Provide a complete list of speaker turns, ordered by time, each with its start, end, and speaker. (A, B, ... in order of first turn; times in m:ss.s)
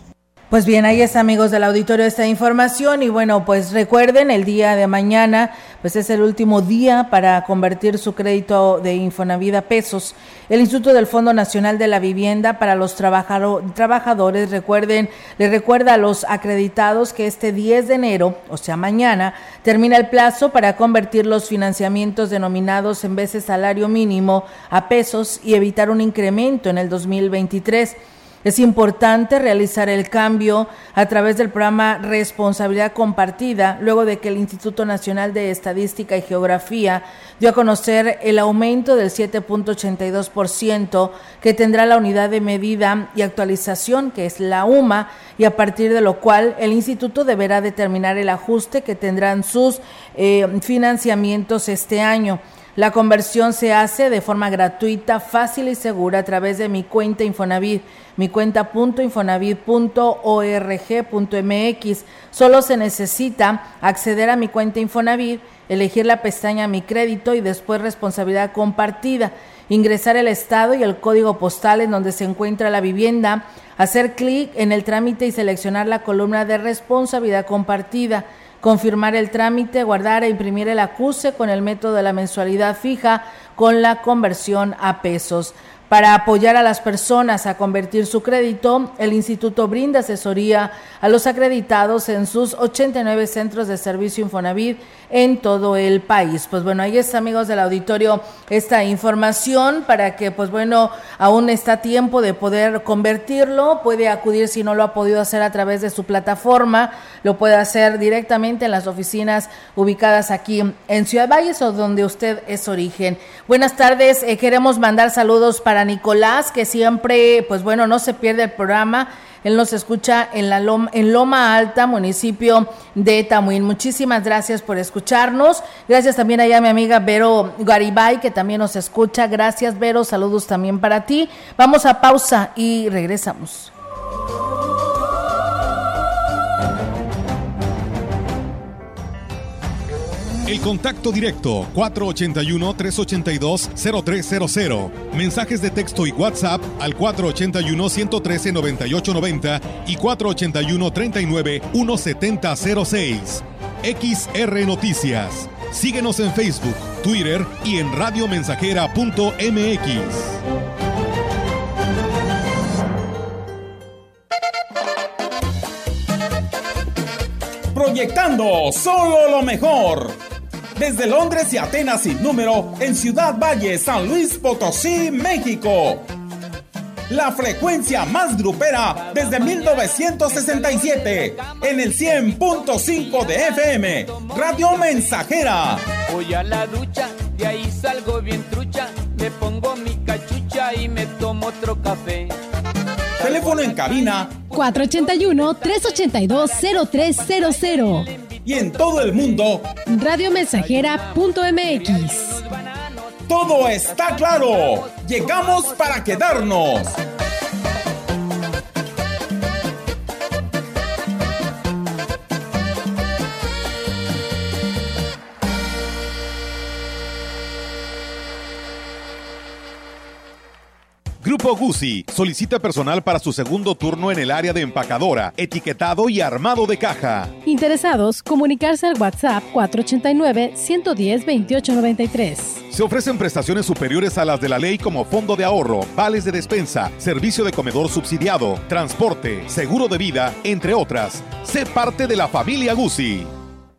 0:00.5-2:13.7 A
2:20.4-2:40.4 B
2:47.7-2:50.2 C
2:50.8-2:56.0 C
2:57.1-3:05.8 C
3:06.1-3:12.4 D
3:13.2-3:14.4 C
3:14.5-3:18.1 E
3:18.4-3:19.7 C
3:19.8-3:22.4 E
3:23.3-3:27.0 C
3:41.2-3:47.4 B
3:47.4-3:52.6 E
3:52.7-4:03.3 B